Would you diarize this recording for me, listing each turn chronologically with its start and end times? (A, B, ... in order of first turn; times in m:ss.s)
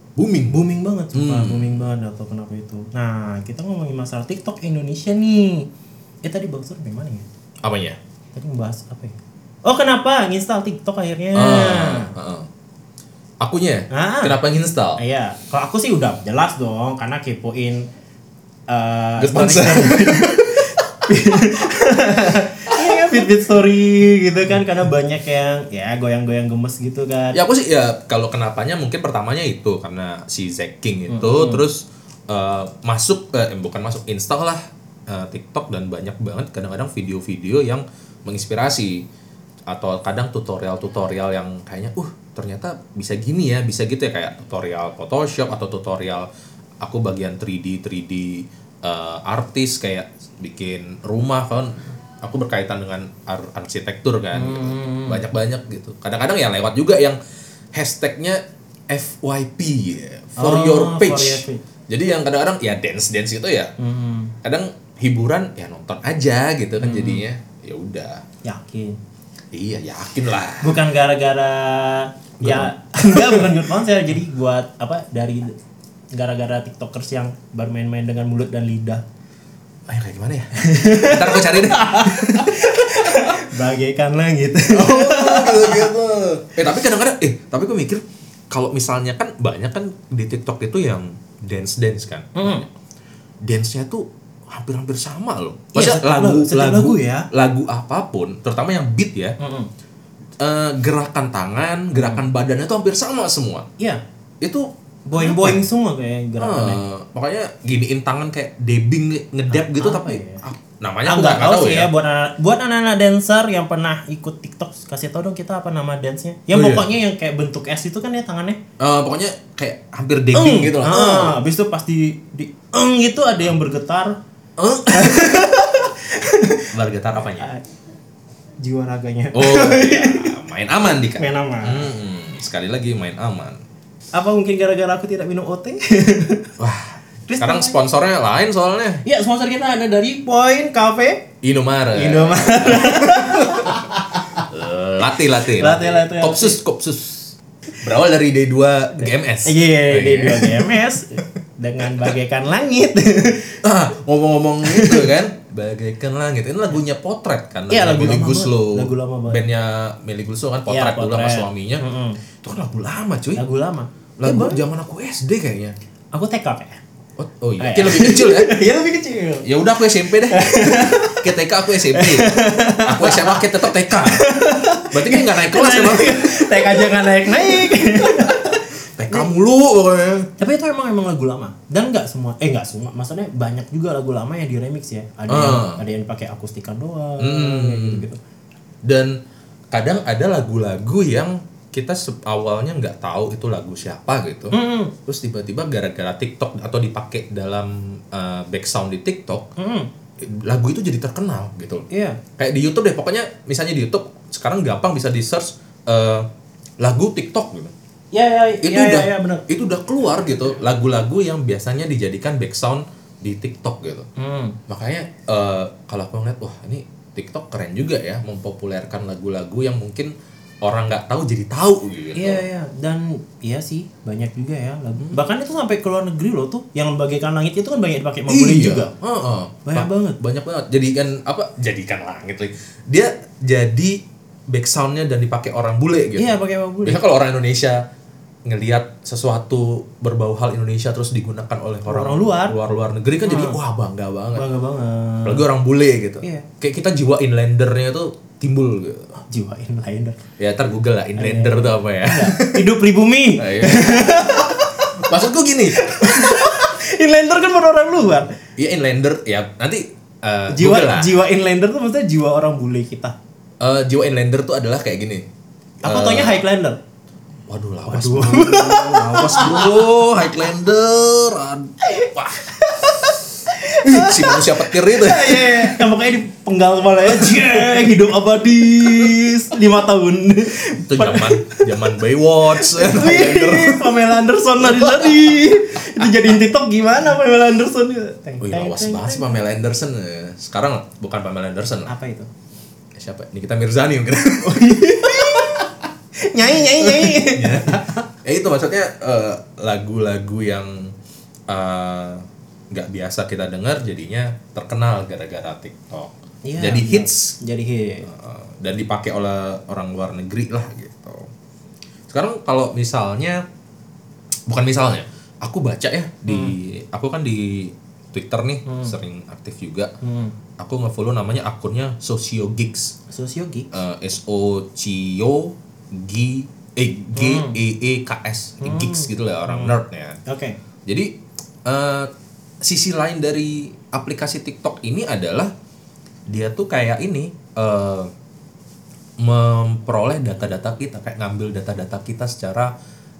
0:00.2-0:01.8 A
0:00.5-0:05.7 B
0:06.2-0:07.2 B
0:07.6-0:08.0 A
0:08.3-0:12.1 B
0:11.3-0:12.5 A
0:13.4-0:15.0 A
0:13.9-0:14.4 B
0:15.0-0:17.9 B
0:18.7-0:27.4 B
0:19.2-0:20.8 A
0:22.7-0:23.2 A
0:27.3-0:39.0 A
0:31.1-0:31.6 B
0:39.7-0:46.3 A
0:46.8-0:57.2 A
0:54.3-0:55.2 B
0:57.7-1:03.7 A
1:00.4-1:01.6 B
1:03.8-1:04.3 B
1:04.4-1:08.2 A
1:06.8-1:07.2 B
1:08.4-1:09.0 B
1:09.5-1:10.8 A
1:10.6-1:15.6 B
1:12.4-1:13.5 A
1:16.1-1:19.0 B
1:19.9-1:23.5 A
1:20.5-1:25.9 B
1:24.7-1:32.7 A
1:32.4-1:32.6 B
1:33.4-1:39.4 A
1:35.7-1:37.3 B
1:39.4-1:39.7 B
1:40.4-1:43.7 A
1:41.9-1:42.2 B
1:44.4-1:45.6 A
1:45.1-1:46.8 B
1:46.4-1:51.9 A
1:49.5-1:50.4 B
1:51.0-1:58.6 B
1:56.5-1:56.8 A
1:58.8-2:01.4 A
2:00.3-2:04.2 B
2:04.6-2:05.5 A
2:04.9-2:06.7 B
2:06.7-2:07.5 A
2:07.4-2:07.6 B
2:08.6-2:10.3 B
2:09.3-2:13.6 A
2:11.2-2:11.9 B
2:14.1-2:16.5 B
2:16.6-2:19.0 A
2:17.3-2:17.8 B
2:19.0-2:21.3 B
2:21.4-2:30.8 A
2:21.9-2:24.4 B
2:25.2-2:26.6 B
2:29.0-2:33.6 B
2:33.6-2:41.8 A
2:34.6-2:35.1 B
2:37.7-2:39.4 B
2:40.7-2:42.2 B
2:42.4-2:43.4 A
2:43.4-2:44.6 B
2:44.2-2:45.7 A
2:46.1-2:46.8 B
2:47.2-2:48.6 A
2:47.6-2:51.3 B
2:49.4-2:54.2 A
2:51.9-2:59.3 B
2:54.8-2:56.5 A
2:58.2-3:00.3 A
3:00.4-3:08.2 B
3:05.3-3:05.8 A
3:07.2-3:08.0 A
3:08.8-3:09.2 A
3:09.7-3:19.5 A
3:14.5-3:14.9 B
3:19.6-3:19.9 B
3:20.2-3:26.3 A
3:21.9-3:22.2 B
3:26.8-3:27.7 A
3:28.1-3:29.5 B
3:28.6-3:34.1 A
3:30.2-3:30.4 B
3:34.2-3:34.6 B
3:34.7-3:40.1 A
3:40.6-3:42.4 A
3:42.1-3:48.9 B
3:48.3-3:56.3 A
3:49.6-3:50.2 B
3:56.2-3:57.0 B
3:56.8-3:57.8 A
3:58.5-4:04.4 A
4:01.8-4:02.5 B
4:03.2-4:03.6 B
4:04.3-4:05.4 B
4:05.2-4:09.1 A
4:06.2-4:06.5 B
4:09.2-4:10.2 B
4:10.4-4:12.6 A
4:11.2-4:15.1 B
4:13.4-4:16.5 A
4:15.7-4:18.4 B
4:18.6-4:21.2 A
4:20.5-4:23.2 B
4:23.6-4:25.3 A
4:25.8-4:26.8 B
4:25.8-4:26.4 A
4:27.5-4:32.4 A
4:27.8-4:30.1 B
4:31.8-4:41.8 B
4:33.7-4:35.8 A
4:37.1-4:37.7 A
4:40.7-4:43.9 A
4:42.5-4:49.4 B
4:44.6-4:46.2 A
4:48.4-4:51.9 A
4:51.9-4:52.3 B
4:53.0-4:55.7 A
4:54.4-4:58.0 B
4:56.6-5:00.9 A
5:01.5-5:07.4 A
5:06.4-5:08.1 B
5:08.0-5:11.3 A
5:12.1-5:13.4 A
5:14.5-5:19.9 A
5:16.3-5:16.5 B
5:18.7-5:18.9 B
5:20.0-5:20.3 B
5:20.6-5:23.0 A
5:23.1-5:23.7 B
5:23.7-5:30.2 A
5:27.1-5:27.6 B
5:28.6-5:29.7 B
5:30.2-5:30.6 B
5:30.9-5:31.1 A
5:31.6-5:32.1 A
5:32.6-5:35.5 A
5:36.3-5:38.1 A
5:39.2-5:42.7 A